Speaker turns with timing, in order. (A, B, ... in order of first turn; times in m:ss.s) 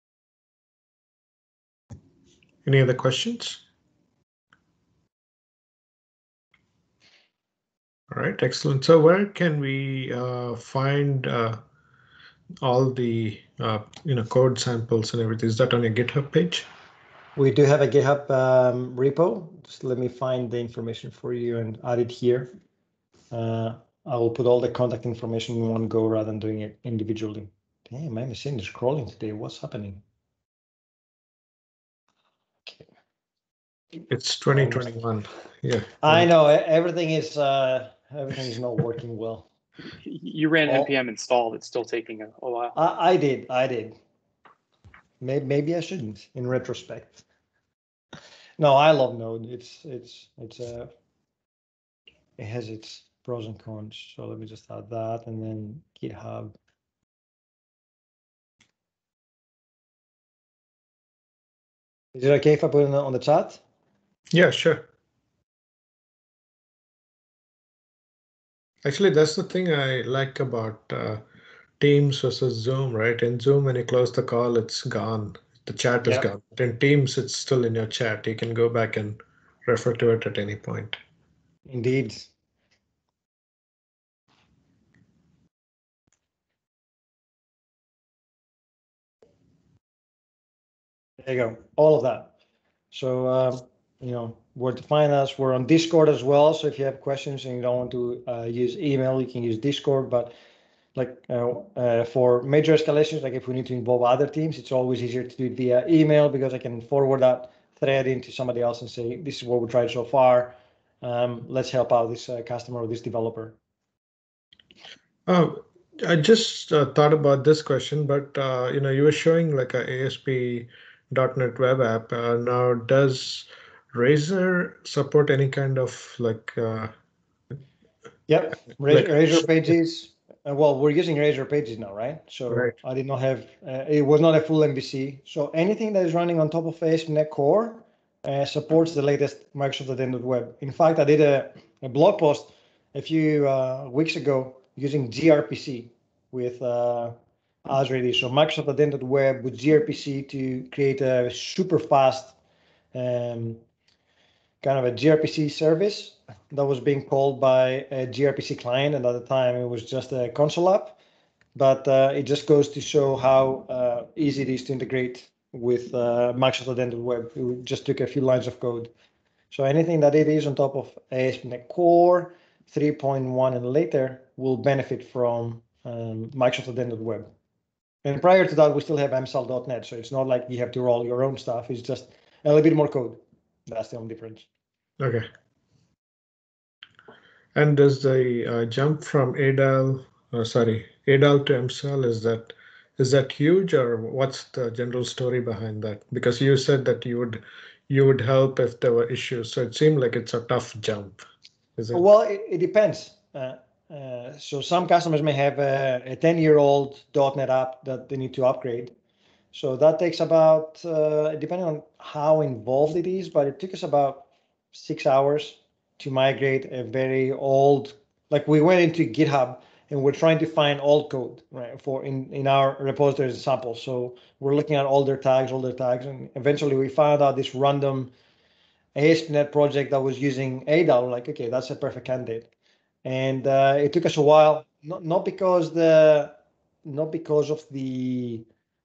0:02.6-0:03.6 A
0:08.1-0:11.6 A
0:12.6-0:16.7 A
0:17.4-0:22.5 B
0:23.3-0:30.0 B
0:34.1-0:36.3 A
0:34.5-0:34.9 B
0:36.0-0:39.5 B
0:40.0-0:42.7 C
0:42.7-0:44.0 B
0:45.2-0:47.2 B
0:48.6-0:50.9 B
0:52.4-0:56.6 B
1:02.1-1:03.6 B
1:04.3-1:04.9 A
1:08.8-1:11.2 A
1:11.8-1:21.0 A
1:21.7-1:22.3 B
1:31.2-1:32.3 B
1:32.9-1:40.3 B
1:41.0-1:53.6 B
1:55.3-2:06.9 A
2:08.3-2:32.4 B
2:08.9-2:09.4 A
2:32.9-2:33.6 B
2:34.6-2:41.0 B
2:41.6-2:48.9 B
2:49.5-2:57.3 B
2:58.0-3:04.4 B
3:05.0-3:05.3 A
3:07.6-3:21.2 A
3:21.8-3:22.0 A
3:21.9-3:28.9 B
3:29.5-3:48.1 B
3:49.0-3:52.5 B
3:53.0-3:58.4 B